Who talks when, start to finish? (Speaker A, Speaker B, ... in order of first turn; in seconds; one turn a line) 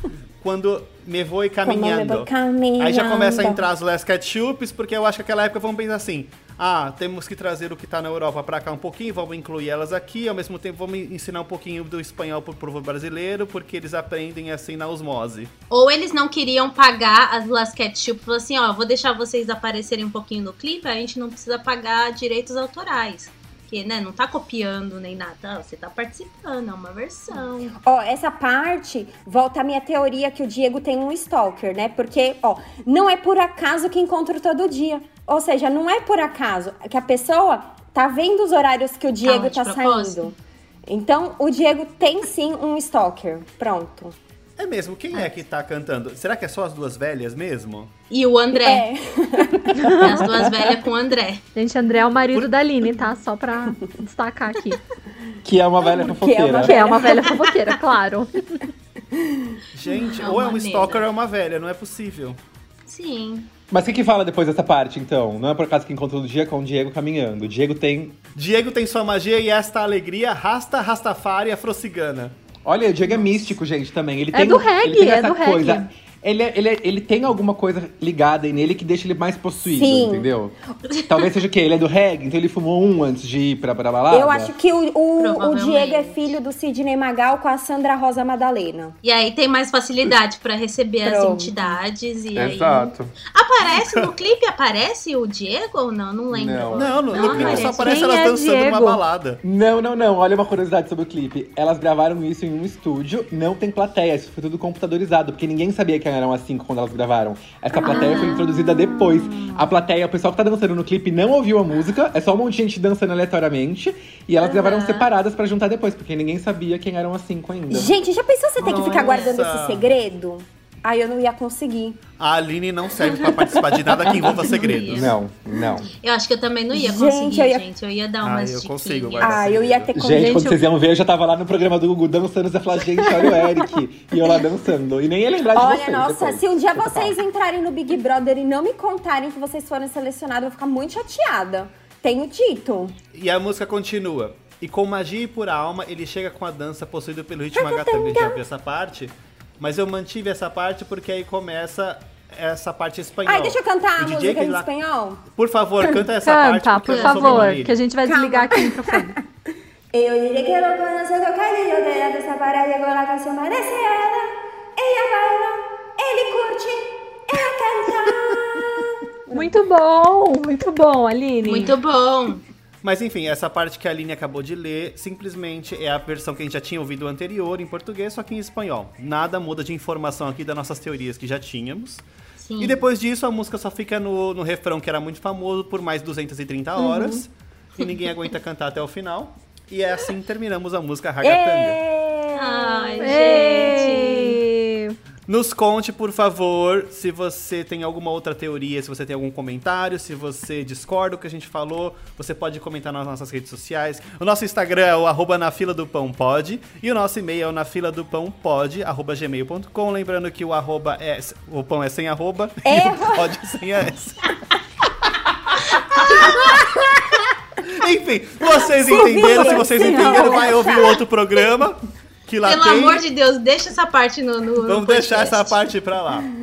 Speaker A: 0.4-15.5
Speaker B: 1.6-3.7
Speaker C: 15.7-27.8
Speaker B: 27.8-40.4
Speaker C: 39.2-40.3
Speaker B: 40.9-44.2
Speaker A: 44.6-47.9
Speaker C: 48.1-48.9
Speaker B: 48.5-50.2
Speaker C: 50.0-51.4
Speaker D: 51.5-54.8
Speaker E: 55.4-56.9
Speaker B: 55.8-57.5
Speaker D: 56.6-58.6
Speaker B: 59.1-59.6
Speaker A: 59.7-62.4
Speaker C: 60.0-61.0
Speaker C: 62.9-63.5
Speaker E: 63.7-68.2
Speaker A: 68.3-72.3
Speaker E: 72.7-84.5
Speaker D: 74.3-75.9
Speaker B: 79.7-80.3
Speaker B: 84.1-89.0
Speaker C: 85.2-86.4
Speaker C: 89.0-98.1
Speaker B: 91.0-91.8
Speaker E: 92.3-93.2
Speaker E: 96.3-97.7
Speaker A: 96.7-99.4
Speaker D: 97.7-99.0
Speaker E: 99.4-117.9
Speaker B: 107.8-109.6
Speaker C: 107.8-108.5
Speaker C: 114.4-115.1
Speaker B: 117.7-122.0
Speaker C: 118.6-119.4
Speaker A: 118.8-119.9
Speaker A: 122.2-125.1
Speaker E: 123.9-125.9
Speaker C: 124.0-125.1
Speaker C: 126.0-129.5
Speaker B: 126.7-127.6
Speaker A: 128.2-129.9
Speaker B: 129.2-130.5
Speaker E: 129.9-137.2
Speaker D: 130.2-130.6
Speaker B: 133.0-133.5
Speaker B: 135.5-143.0
Speaker A: 143.1-154.7
Speaker B: 147.5-148.4
Speaker B: 153.3-155.2
Speaker A: 155.3-157.8
Speaker D: 156.2-159.2
Speaker C: 156.9-157.5
Speaker B: 158.0-159.2
Speaker B: 159.9-169.5
Speaker D: 169.3-171.7
Speaker C: 171.4-172.4
Speaker A: 172.8-182.1
Speaker C: 182.4-182.8
Speaker A: 182.6-191.8
Speaker B: 186.8-187.2
Speaker B: 191.2-194.3
Speaker C: 192.3-194.4
Speaker D: 193.0-195.0
Speaker A: 195.3-214.2
Speaker B: 212.7-213.5
Speaker A: 216.0-216.6
Speaker B: 216.0-217.0
Speaker A: 217.6-223.1
Speaker B: 218.5-221.1
Speaker D: 219.1-220.5
Speaker C: 222.4-225.6
Speaker A: 224.6-226.3